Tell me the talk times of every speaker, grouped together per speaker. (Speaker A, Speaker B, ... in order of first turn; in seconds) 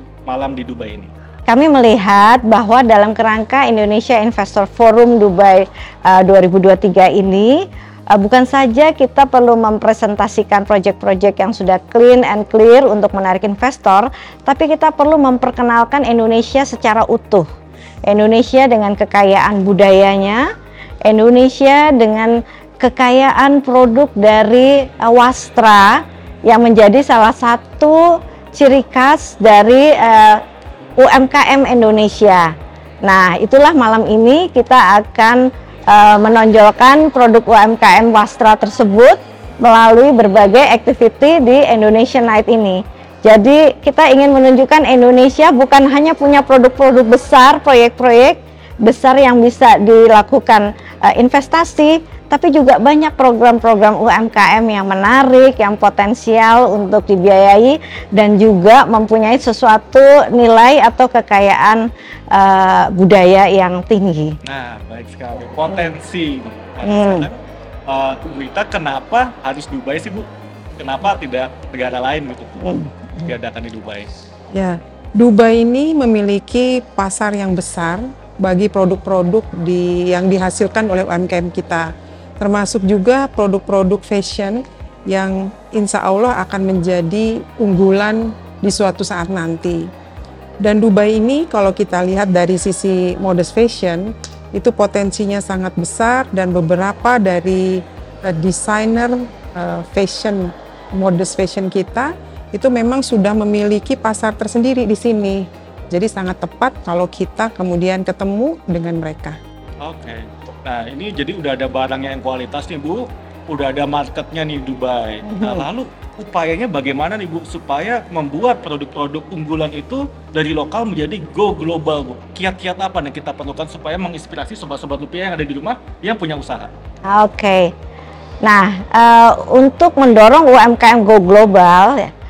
Speaker A: 0.2-1.1, 64.4-70.2, 70.8-72.6, 73.2-74.1, 109.8-126.7
Speaker B: 1.5-17.5, 18.1-20.4, 21.0-30.4, 31.0-32.5, 33.0-64.3, 66.8-67.3, 72.6-73.3, 115.2-115.6, 127.0-127.7, 128.4-132.1
Speaker C: 74.5-89.9, 90.6-109.4